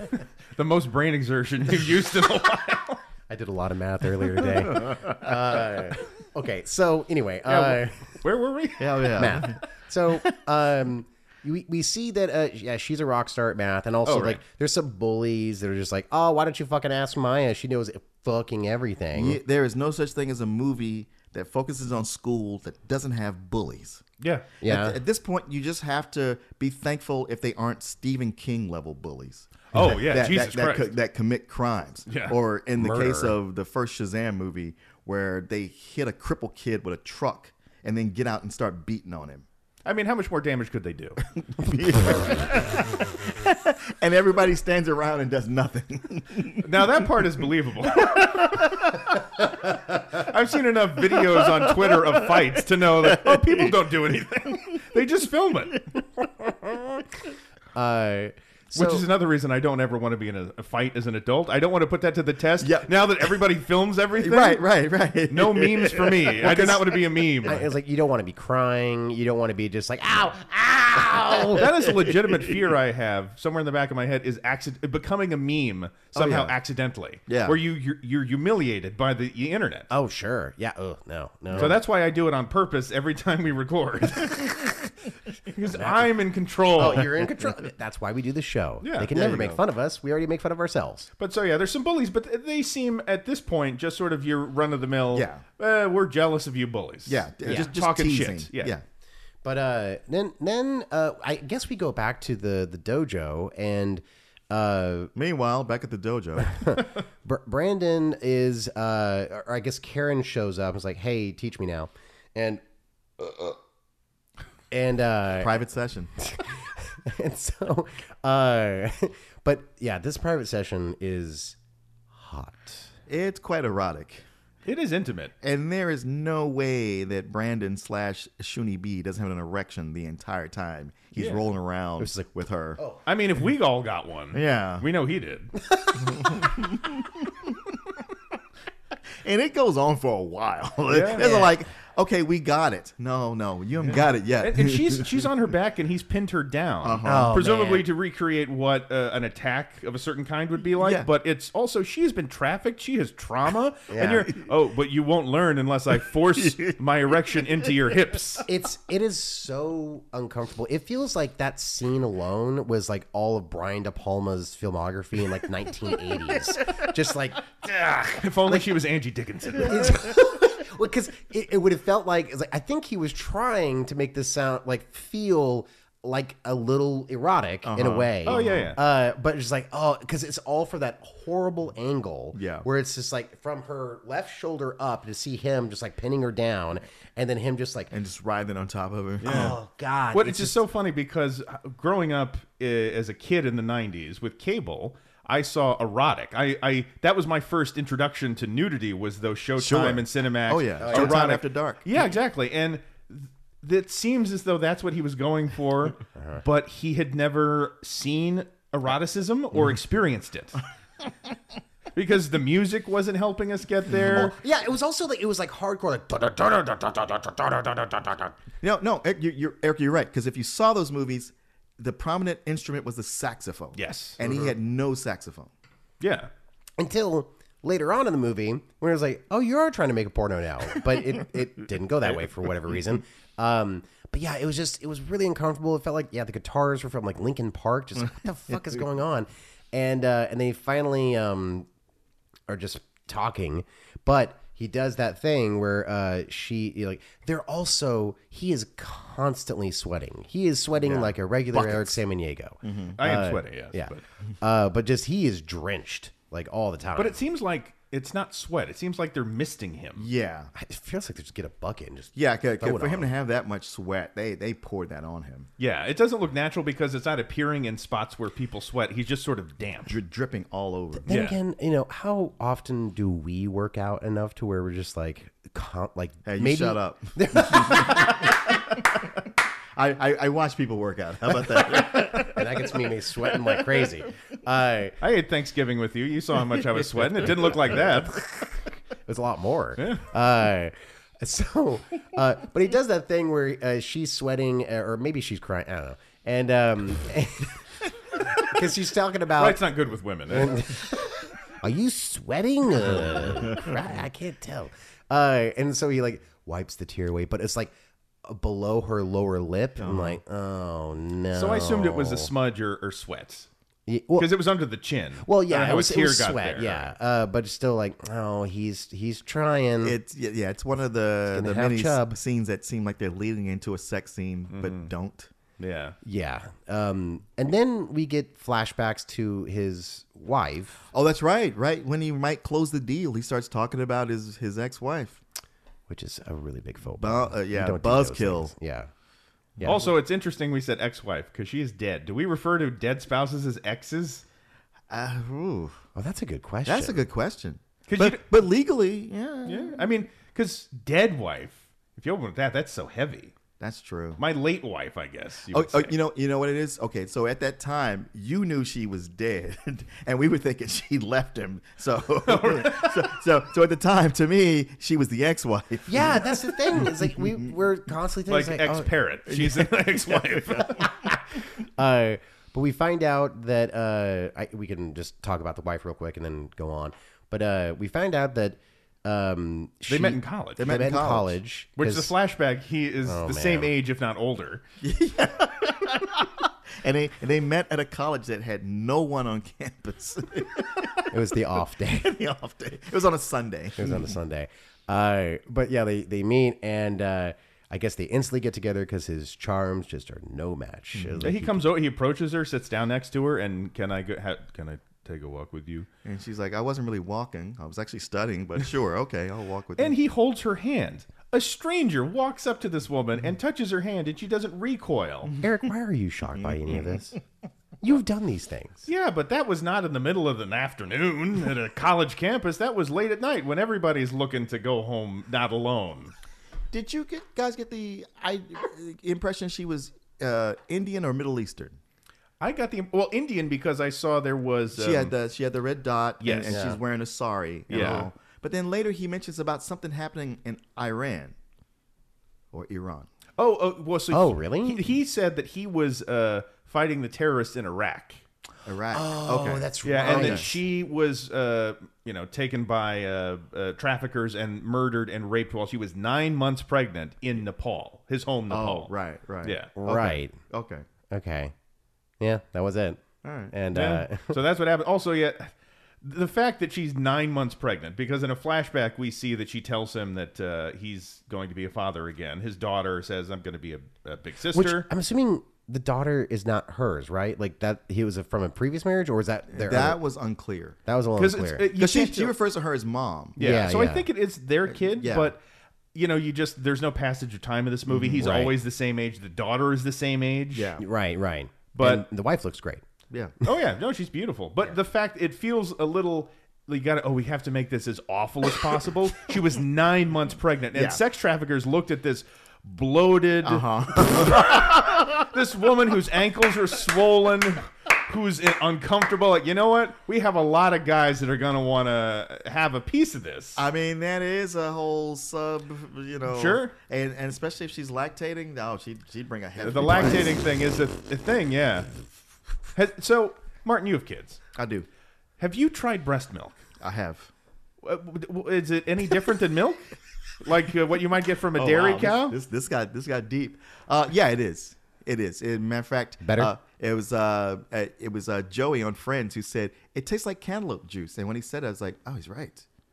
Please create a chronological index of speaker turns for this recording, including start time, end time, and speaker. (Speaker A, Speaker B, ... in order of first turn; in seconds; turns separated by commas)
Speaker A: 0.5-3.0, Speaker B: 3.3-8.1, Speaker A: 7.5-9.5, Speaker C: 8.8-9.6, Speaker B: 9.1-19.4, Speaker A: 14.0-14.4, Speaker C: 19.1-24.0, Speaker A: 24.2-24.4, Speaker B: 24.6-25.0, Speaker C: 24.6-39.4, Speaker A: 29.7-30.9, Speaker A: 32.1-32.4, Speaker B: 32.8-33.4, Speaker A: 39.8-41.2, Speaker C: 41.4-46.9, Speaker A: 46.6-48.8, Speaker C: 48.0-49.0, Speaker A: 50.0-55.8, Speaker C: 51.3-52.5, Speaker C: 53.0-53.7, Speaker B: 56.4-57.0, Speaker B: 57.7-59.1, Speaker A: 58.7-64.6, Speaker C: 62.6-63.3, Speaker C: 64.2-66.8, Speaker A: 65.3-67.6, Speaker B: 66.4-71.7, Speaker A: 71.5-79.9, Speaker C: 76.1-76.5, Speaker C: 77.3-77.6, Speaker B: 79.9-81.8, Speaker C: 81.5-81.8, Speaker A: 81.5-84.9, Speaker A: 85.5-87.2, Speaker B: 86.7-91.1, Speaker A: 88.8-89.1, Speaker C: 89.1-89.6, Speaker A: 91.2-98.8, Speaker C: 95.1-95.4, Speaker C: 97.1-98.8, Speaker B: 99.4-105.1, Speaker C: 105.2-106.7, Speaker B: 106.4-112.6, Speaker B: 113.2-113.5, Speaker B: 114.7-115.5, Speaker C: 115.4-116.1, Speaker B: 116.2-121.6, Speaker B: 122.1-122.9, Speaker C: 123.1-124.2, Speaker A: 124.6-125.3, Speaker C: 125.4-132.8, Speaker A: 131.2-131.4, Speaker B: 132.0-133.0, Speaker A: 133.1-135.6, Speaker C: 134.3-134.8, Speaker B: 135.7-136.3, Speaker C: 136.1-137.0, Speaker C: 139.2-145.3, Speaker A: 140.9-141.2, Speaker B: 141.1-141.6, Speaker A: 144.4-158.5, Speaker C: 146.8-147.3, Speaker B: 147.0-147.9, Speaker C: 150.8-151.1, Speaker B: 153.9-154.3, Speaker B: 158.4-168.7, Speaker A: 168.1-170.0, Speaker B: 169.5-187.9, Speaker C: 177.6-178.7, Speaker A: 178.2-178.8, Speaker C: 182.3-182.7, Speaker C: 187.9-189.6, Speaker A: 189.2-189.5, Speaker B: 189.2-190.6, Speaker A: 190.1-210.6, Speaker C: 199.6-201.8, Speaker B: 200.8-201.2, Speaker A: 211.9-214.3, Speaker B: 214.1-218.4, Speaker C: 218.6-225.5, Speaker A: 223.7-224.2, Speaker A: 226.0-226.3, Speaker B: 226.8-241.7, Speaker B: 242.5-257.2, Speaker C: 250.8-252.0, Speaker C: 252.6-253.0, Speaker A: 253.0-254.0, Speaker A: 256.9-260.1, Speaker C: 260.0-260.5, Speaker B: 260.5-263.1, Speaker C: 262.1-265.5, Speaker A: 265.6-270.0, Speaker C: 269.9-271.1, Speaker A: 271.1-271.4, Speaker B: 271.1-278.3, Speaker C: 276.2-278.7, Speaker C: 279.8-282.4, Speaker B: 282.1-285.0, Speaker A: 285.0-288.2, Speaker B: 287.0-297.6, Speaker A: 289.8-290.1, Speaker B: 298.4-299.6, Speaker A: 299.4-300.7, Speaker B: 300.3-307.7, Speaker B: 308.2-312.3, Speaker C: 309.8-310.2, Speaker A: 311.3-313.5, Speaker B: 313.9-314.3, Speaker A: 314.1-316.9, Speaker B: 315.2-320.0, Speaker C: 319.8-325.3, Speaker B: 321.3-322.1, Speaker A: 324.5-324.9, Speaker A: 325.6-326.0, Speaker B: 326.0-330.8, Speaker C: 330.9-335.2, Speaker B: 335.9-338.9, Speaker C: 337.0-338.5, Speaker C: 339.6-339.8, Speaker A: 339.6-344.2, Speaker C: 344.9-345.8, Speaker B: 345.9-347.1, Speaker C: 346.6-349.9, Speaker A: 347.9-348.2, Speaker A: 349.4-353.3, Speaker C: 353.6-354.2, Speaker A: 354.2-355.9, Speaker C: 355.5-367.4, Speaker A: 362.2-363.1, Speaker B: 365.9-368.9, Speaker A: 368.3-370.9, Speaker C: 369.3-370.6, Speaker B: 370.8-382.1, Speaker A: 379.9-380.8, Speaker C: 380.6-381.4, Speaker A: 381.8-384.6, Speaker B: 383.0-383.7, Speaker C: 384.8-394.1, Speaker B: 391.1-392.1, Speaker B: 393.8-401.7, Speaker C: 400.9-401.3, Speaker A: 401.2-405.9, Speaker C: 406.0-409.9, Speaker A: 409.8-415.3, Speaker B: 415.4-417.2, Speaker C: 416.4-417.0, Speaker B: 417.8-418.9, Speaker A: 418.9-426.1, Speaker C: 426.7-431.8, Speaker A: 432.4-435.1, Speaker C: 434.8-441.3, Speaker A: 436.2-436.6, Speaker B: 436.5-436.8, Speaker A: 437.7-438.1, Speaker B: 437.7-438.1, Speaker C: 442.5-443.1, Speaker A: 443.4-448.2, Speaker B: 444.1-444.8, Speaker C: 448.6-450.4, Speaker B: 448.9-450.6, Speaker A: 449.8-458.9, Speaker C: 458.5-460.8, Speaker A: 459.4-459.7, Speaker B: 459.8-460.4, Speaker B: 461.1-461.5, Speaker B: 462.2-464.4, Speaker C: 463.2-463.5, Speaker A: 463.7-474.9, Speaker B: 474.5-480.0, Speaker C: 479.5-480.8, Speaker B: 480.9-481.7, Speaker A: 481.1-482.3, Speaker C: 481.7-483.4, Speaker A: 483.4-485.4, Speaker B: 483.4-484.1, Speaker C: 484.7-485.3, Speaker A: 485.9-490.7, Speaker C: 487.9-488.3, Speaker B: 488.2-488.5, Speaker C: 490.5-490.8, Speaker B: 490.8-492.8, Speaker A: 491.7-492.1, Speaker A: 493.4-513.6, Speaker C: 500.7-501.0, Speaker C: 503.4-505.2, Speaker C: 513.6-520.4, Speaker A: 516.3-516.7, Speaker A: 519.6-521.9, Speaker A: 522.7-524.4, Speaker C: 524.5-524.9, Speaker A: 525.4-526.6, Speaker C: 526.8-527.3, Speaker A: 527.8-529.8, Speaker A: 530.4-532.4, Speaker C: 531.6-542.6, Speaker B: 536.2-536.5